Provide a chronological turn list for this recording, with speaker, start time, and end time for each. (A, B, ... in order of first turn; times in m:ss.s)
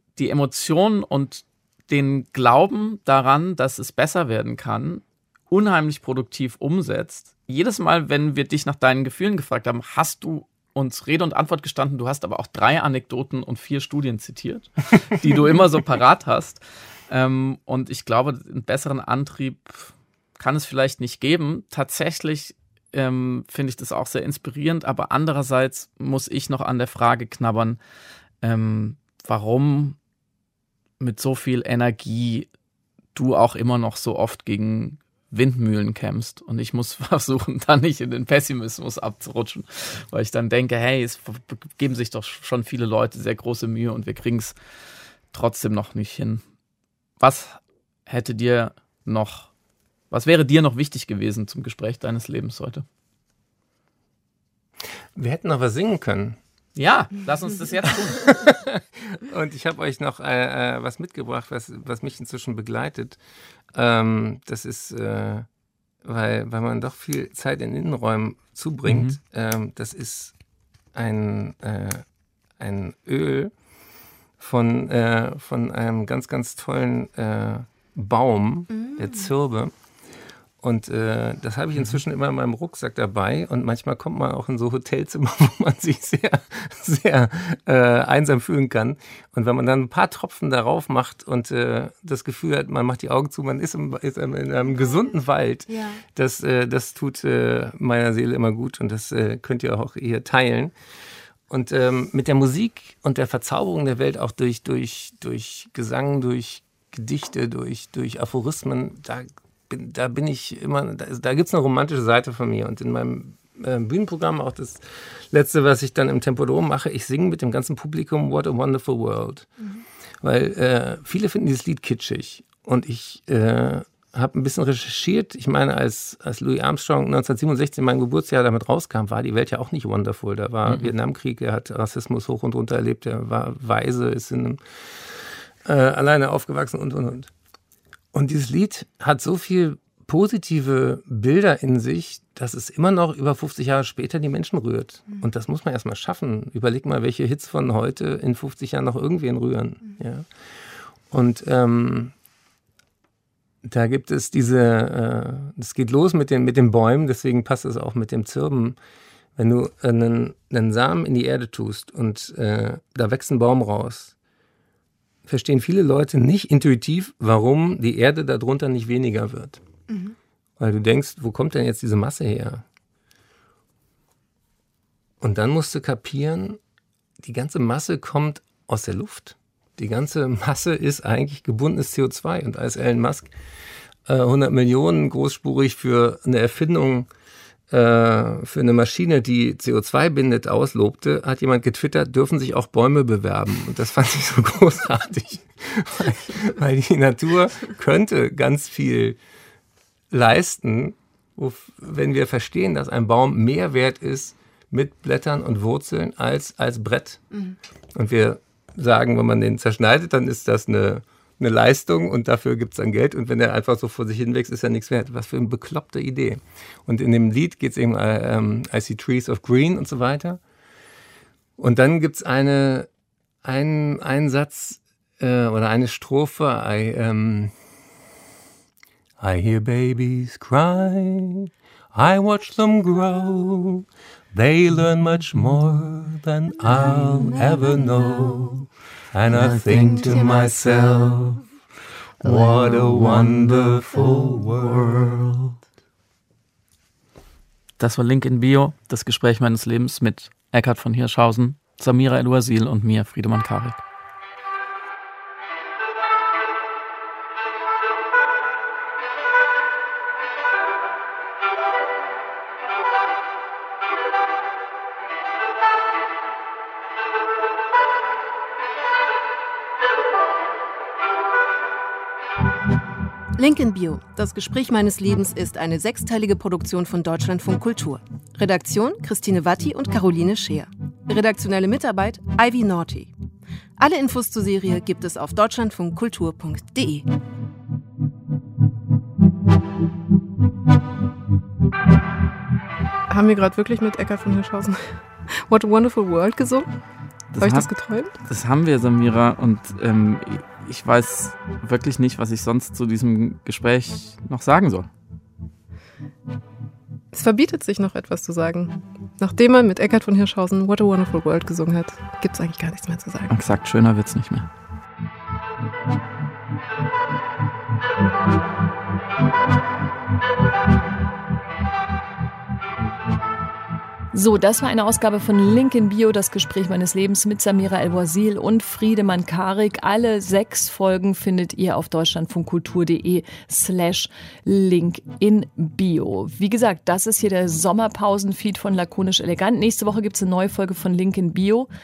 0:00.2-0:27.8 A
0:28.4-0:30.0 A
0:31.0-0:32.5 A
0:33.2-0:44.6 A
0:45.3-0:46.4 A
0:47.2-0:49.5 A
0:50.1-0:52.8 A
0:55.2-0:56.4 B
0:56.8-0:58.5 A
0:58.0-1:03.2 B
1:03.7-1:05.5 B
1:06.0-1:10.4 B
1:08.9-1:09.2 A
1:10.9-1:12.0 B
1:12.6-1:13.5 B
1:14.4-1:19.7 B
1:18.7-1:19.1 C
1:20.6-1:40.7 B
1:35.7-1:36.0 C
1:41.5-1:59.5 B
2:00.2-2:17.3 B
2:18.1-2:30.3 B
2:31.1-2:32.1 B
2:33.6-2:38.8 B
2:39.4-2:44.2 B
2:45.3-2:49.6 B
2:49.9-2:50.2 C
2:50.6-2:52.6 B
2:55.2-2:56.6 B
2:57.2-3:03.3 B
3:04.1-3:07.1 B
3:07.7-3:19.2 B
3:20.1-3:27.2 B
3:27.9-3:40.4 B
3:41.6-3:42.9 B
3:43.4-3:47.5 B
3:49.2-4:01.4 B
4:02.2-4:05.6 B
4:07.8-4:13.8 A
4:33.4-4:43.1 C
4:43.8-4:47.1 C
4:53.1-4:56.7 C
4:57.3-5:04.9 A
4:57.4-4:58.1 C
5:07.1-5:13.3 C
5:13.3-5:14.5 A
5:24.1-5:41.7 D